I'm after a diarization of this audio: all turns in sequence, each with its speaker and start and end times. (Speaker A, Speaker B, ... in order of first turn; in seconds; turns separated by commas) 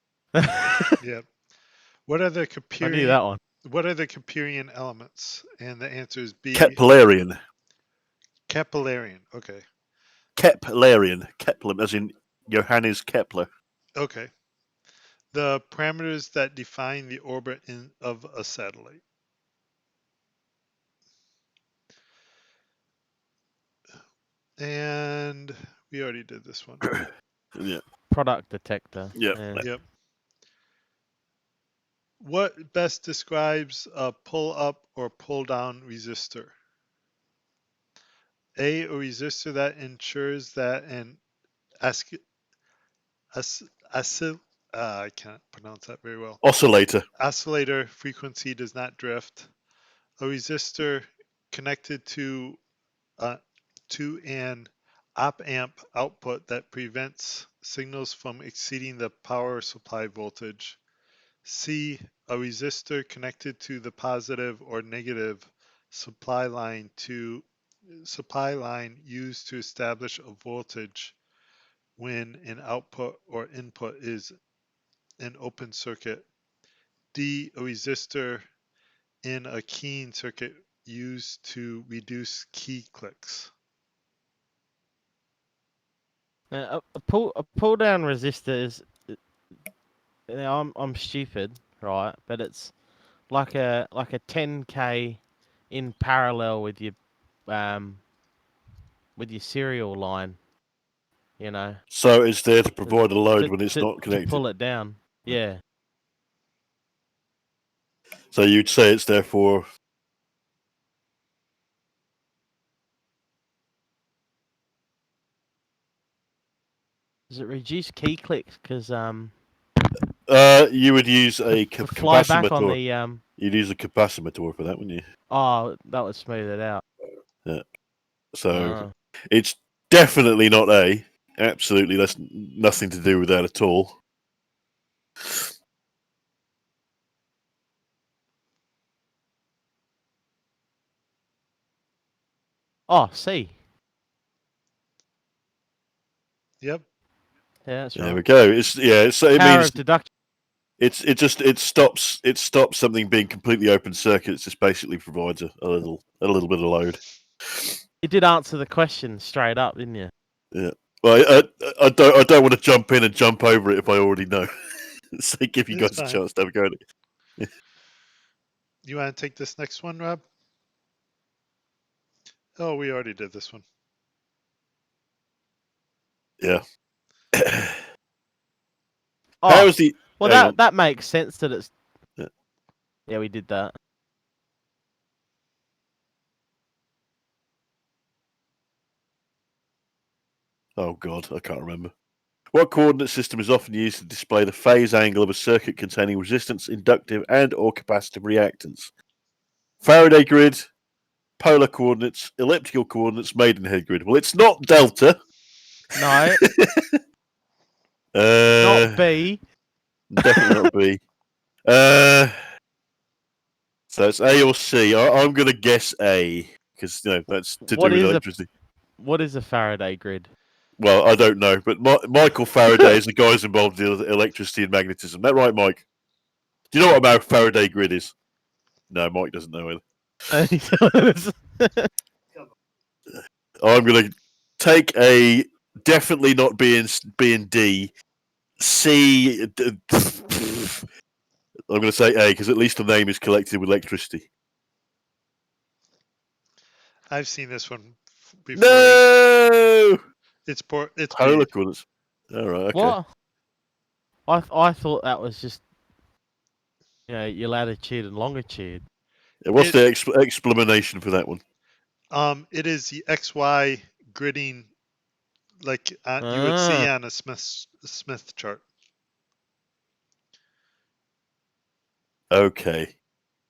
Speaker A: 0.4-1.0, Speaker B: 1.0-1.3, Speaker B: 2.1-6.8, Speaker A: 2.8-3.4, Speaker C: 6.5-7.4, Speaker B: 8.5-9.6, Speaker C: 10.4-13.5, Speaker B: 14.0-14.3, Speaker B: 15.3-19.0, Speaker B: 24.6-26.9, Speaker C: 27.6-27.8, Speaker A: 28.1-29.6, Speaker C: 29.1-29.7, Speaker B: 32.2-36.5, Speaker B: 38.6-41.2, Speaker B: 41.8-42.2, Speaker B: 43.3-46.4, Speaker C: 46.4-47.1, Speaker B: 47.2-49.5, Speaker B: 50.2-52.6, Speaker B: 53.2-60.8, Speaker B: 61.5-71.2, Speaker B: 72.0-74.4, Speaker B: 75.2-76.3, Speaker B: 77.1-78.5, Speaker B: 79.2-83.5, Speaker A: 86.5-89.2, Speaker A: 90.3-92.7, Speaker A: 93.3-98.0, Speaker A: 99.2-100.4, Speaker A: 101.4-101.8, Speaker C: 101.9-104.4, Speaker A: 102.9-105.6, Speaker C: 108.3-109.7, Speaker A: 117.3-119.3, Speaker C: 120.3-122.8, Speaker A: 121.7-123.2, Speaker C: 123.4-125.1, Speaker A: 125.3-126.8, Speaker C: 128.3-134.0, Speaker A: 128.5-128.9, Speaker A: 142.9-143.5, Speaker A: 147.7-148.2, Speaker C: 148.0-149.8, Speaker A: 149.3-150.1, Speaker C: 150.8-157.0, Speaker A: 158.0-160.1, Speaker C: 160.5-164.5, Speaker C: 165.2-166.8, Speaker B: 165.7-166.2, Speaker B: 168.8-170.2, Speaker B: 172.6-173.6, Speaker C: 177.4-177.8, Speaker A: 179.4-181.7, Speaker C: 179.5-180.6, Speaker A: 183.1-183.7, Speaker C: 190.8-191.9, Speaker C: 192.5-198.9, Speaker C: 199.8-200.7, Speaker C: 201.4-205.2, Speaker A: 205.9-206.4, Speaker C: 206.4-206.8, Speaker C: 208.2-209.0, Speaker A: 208.6-209.4, Speaker C: 210.1-211.0, Speaker C: 211.7-212.3, Speaker C: 213.9-218.5, Speaker A: 217.7-218.2, Speaker A: 219.0-220.3, Speaker C: 220.8-225.8, Speaker C: 226.7-228.1, Speaker C: 228.9-229.8, Speaker A: 230.3-231.9, Speaker C: 233.1-237.9, Speaker C: 238.6-240.8, Speaker C: 241.7-244.3, Speaker B: 247.1-249.1, Speaker C: 248.6-250.0, Speaker B: 250.5-251.5, Speaker C: 251.1-253.0, Speaker A: 252.7-253.1, Speaker A: 254.3-255.6, Speaker A: 257.1-258.8, Speaker C: 259.4-261.4, Speaker B: 259.6-259.8, Speaker B: 262.1-264.7, Speaker B: 265.6-268.6, Speaker A: 266.2-266.9, Speaker C: 272.3-272.9